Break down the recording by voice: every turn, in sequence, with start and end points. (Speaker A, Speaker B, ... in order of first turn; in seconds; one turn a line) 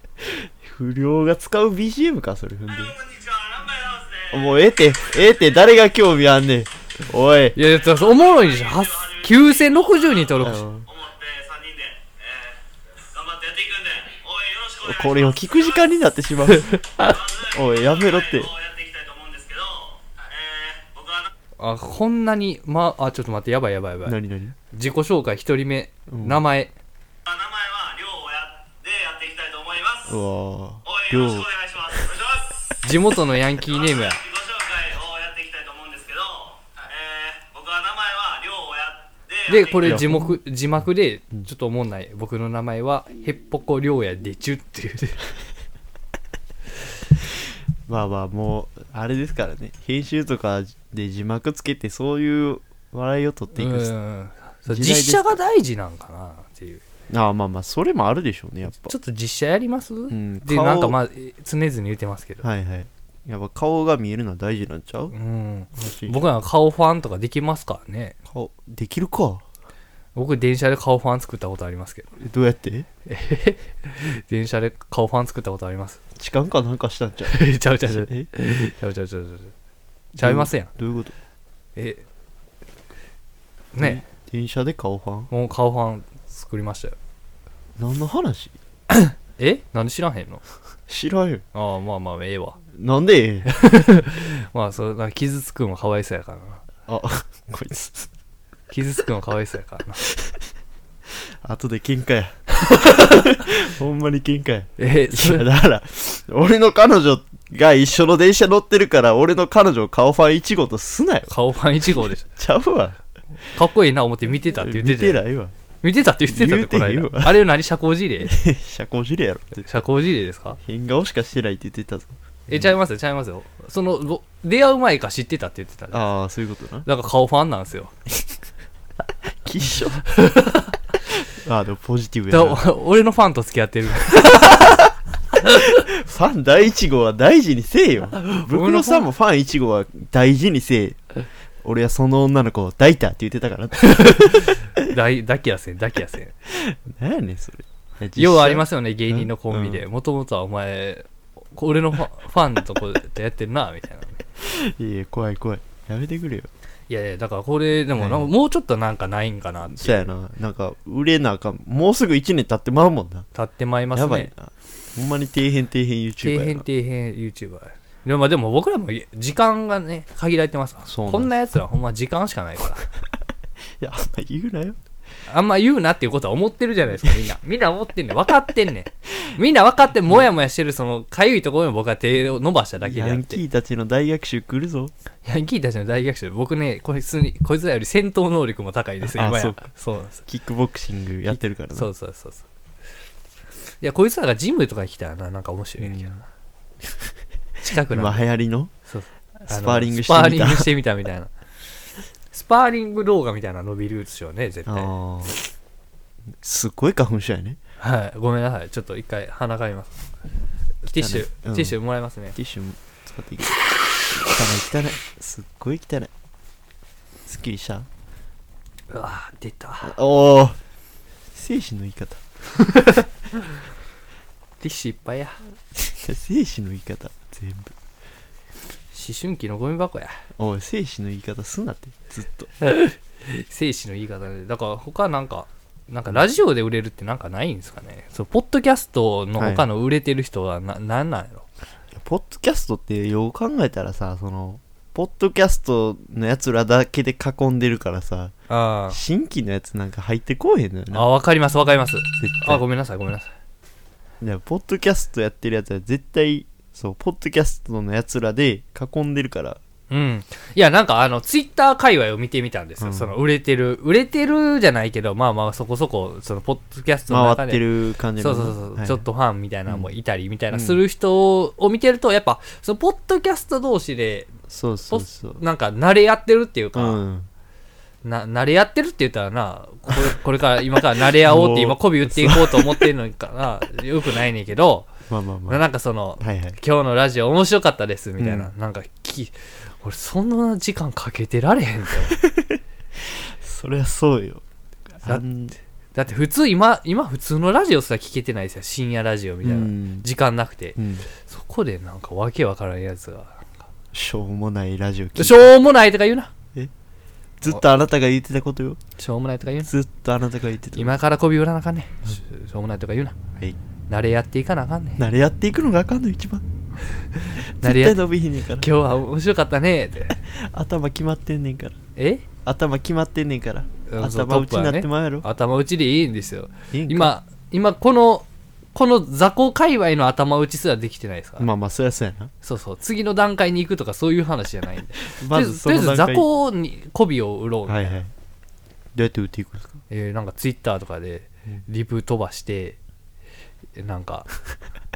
Speaker A: 0.2-3.0
Speaker B: 2.7-4.7
Speaker A: 4.3-7.6
Speaker C: 7.5-10.6
Speaker B: 7.6-15.9
Speaker A: 10.4-10.9
Speaker A: 14.8-16.8
Speaker C: 16.7-17.2
Speaker B: 17.0-21.3
Speaker A: 17.4-18.5
Speaker C: 21.6-24.2
Speaker A: 24.0-24.6
Speaker C: 24.7-26.7
Speaker A: 26.1-26.4
Speaker B: 27.2-30.2
Speaker A: 30.1-31.5
Speaker B: 30.8-32.6
Speaker C: 32.8-34.2
Speaker B: 33.6-40.1
Speaker C: 39.5-45.2
Speaker A: 39.8-40.4
Speaker A: 47.9-53.9
Speaker C: 53.5-56.8
Speaker A: 54.7-55.4
Speaker A: 57.1-59.0
Speaker C: 58.8-62.4
Speaker A: 60.1-61.0
Speaker A: 62.4-65.1
Speaker C: 65.1-68.1
Speaker A: 65.8-66.2
Speaker A: 68.3-69.4
Speaker C: 70.1-72.1
Speaker A: 72.2-72.9
Speaker C: 73.0-76.0
Speaker A: 76.2-78.3
Speaker C: 77.3-79.5
Speaker C: 80.1-80.7
Speaker A: 80.2-81.1
Speaker C: 81.8-82.0
Speaker C: 83.7-84.0
Speaker A: 83.8-85.3
Speaker C: 85.3-87.0
Speaker A: 87.8-88.6
Speaker C: 88.9-90.4
Speaker A: 90.9-91.4
Speaker C: 91.5-92.6
Speaker A: 92.7-93.5
Speaker C: 93.5-96.6
Speaker A: 96.9-98.1
Speaker C: 98.7-100.0
Speaker A: 100.1-100.3
Speaker A: 101.4-111.3
Speaker C: 102.7-103.2
Speaker C: 104.8-105.5
Speaker C: 111.3-112.2
Speaker A: 112.3-113.0
Speaker C: 113.5-115.2
Speaker A: 114.5-115.5
Speaker C: 115.8-118.3
Speaker A: 116.3-117.4
Speaker A: 118.2-119.8
Speaker C: 119.6-120.6
Speaker A: 120.6-122.7
Speaker C: 122.5-126.1
Speaker A: 125.9-126.8
Speaker C: 126.8-127.9
Speaker A: 129.4-130.1
Speaker C: 130.1-130.7
Speaker A: 131.3-132.6
Speaker C: 132.3-134.8
Speaker A: 134.3-134.9
Speaker C: 135.4-135.7
Speaker A: 135.6-141.0
Speaker C: 138.2-139.1
Speaker A: 141.6-144.5
Speaker C: 143.8-146.3
Speaker A: 146.5-149.8
Speaker C: 148.2-154.2
Speaker A: 154.4-156.5
Speaker C: 156.9-160.1
Speaker A: 158.0-158.3
Speaker A: 159.7-163.3
Speaker C: 163.3-164.3
Speaker A: 163.9-166.7
Speaker C: 166.2-172.8
Speaker A: 170.8-171.3
Speaker A: 173.8-174.8
Speaker C: 175.3-183.4
Speaker A: 182.8-184.9
Speaker C: 185.2-190.2
Speaker A: 189.0-189.7
Speaker A: 190.2-191.9
Speaker C: 191.3-192.4
Speaker C: 193.8-196.2
Speaker A: 195.8-196.2
Speaker C: 197.6-198.2
Speaker A: 197.9-198.7
Speaker C: 198.8-201.3
Speaker A: 199.4-200.7
Speaker C: 202.3-204.9
Speaker A: 204.7-205.4
Speaker A: 206.4-207.6
Speaker C: 207.8-210.0
Speaker C: 210.8-212.3
Speaker A: 210.9-211.8
Speaker A: 212.3-216.1
Speaker A: 217.2-217.9
Speaker C: 218.9-219.9
Speaker A: 219.8-220.6
Speaker A: 221.3-222.2
Speaker C: 222.7-223.1
Speaker C: 224.6-225.4
Speaker A: 225.8-227.7
Speaker C: 228.9-230.2
Speaker A: 230.4-232.5
Speaker C: 232.6-241.4
Speaker A: 239.4-239.7
Speaker A: 241.9-248.3
Speaker C: 248.5-249.0
Speaker A: 248.9-251.1
Speaker C: 250.9-253.3
Speaker A: 252.2-252.6
Speaker A: 254.2-259.6
Speaker C: 259.9-267.6
Speaker A: 262.8-263.1
Speaker A: 267.1-269.0
Speaker C: 268.2-274.3
Speaker A: 270.5-270.8
Speaker A: 274.5-275.4
Speaker C: 274.9-277.0
Speaker A: 276.7-277.3
Speaker C: 278.0-284.9
Speaker A: 281.1-282.9
Speaker A: 285.1-285.6
Speaker C: 285.5-292.2
Speaker A: 286.2-286.6
Speaker A: 288.2-288.5
Speaker A: 292.2-294.4
Speaker A: 294.9-295.6
Speaker C: 295.9-303.5
Speaker A: 299.4-300.1
Speaker A: 300.8-301.1
Speaker A: 303.9-305.5
Speaker C: 305.2-306.3
Speaker A: 307.4-308.8
Speaker C: 309.0-309.7
Speaker A: 309.6-310.9
Speaker C: 310.7-313.1
Speaker C: 313.9-315.0
Speaker A: 315.0-316.4
Speaker A: 317.3-318.7
Speaker C: 317.6-318.0
Speaker C: 318.6-320.2
Speaker A: 320.2-321.8
Speaker C: 321.9-322.3
Speaker A: 322.4-325.2
Speaker C: 323.9-331.5
Speaker A: 326.7-327.1
Speaker A: 331.4-332.3
Speaker C: 332.4-338.0
Speaker A: 335.1-336.2
Speaker A: 337.7-338.1
Speaker A: 338.9-339.7
Speaker C: 339.9-342.8
Speaker C: 343.7-344.3